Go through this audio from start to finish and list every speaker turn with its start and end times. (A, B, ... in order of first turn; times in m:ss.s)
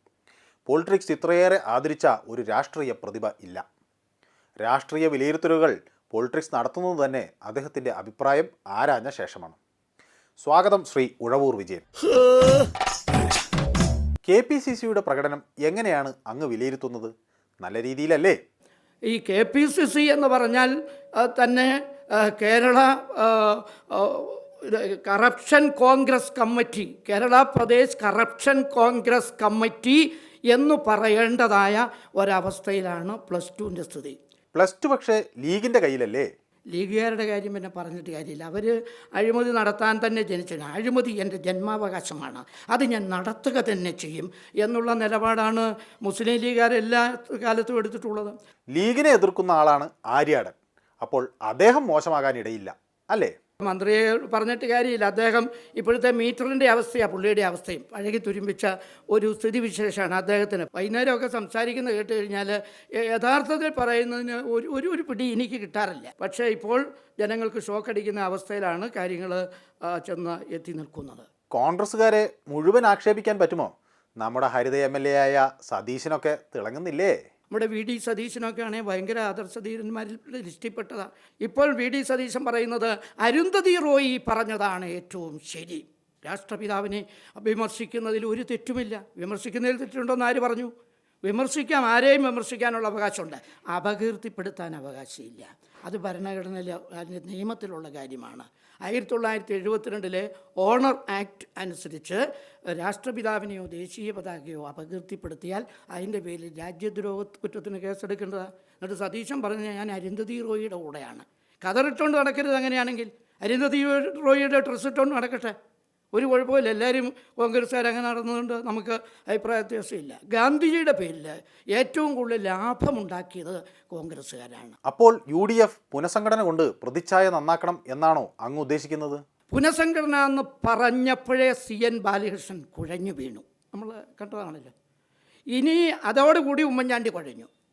0:00.7-0:03.6 A
0:04.6-0:09.6 A
0:10.4-0:11.8 A
0:14.3-0:18.4 A
0:19.1-0:34.2 B
0:34.5-0:36.3 A
0:36.7-0:48.3 B
0:48.7-0:53.3 A
0:53.6-1:11.3 B
1:11.5-1:17.1 A
1:17.5-1:30.7 B
1:31.2-1:55.5 B
1:56.1-2:04.8 B
2:04.8-2:09.2 A
2:09.5-2:14.7 B
2:15.5-2:17.5 B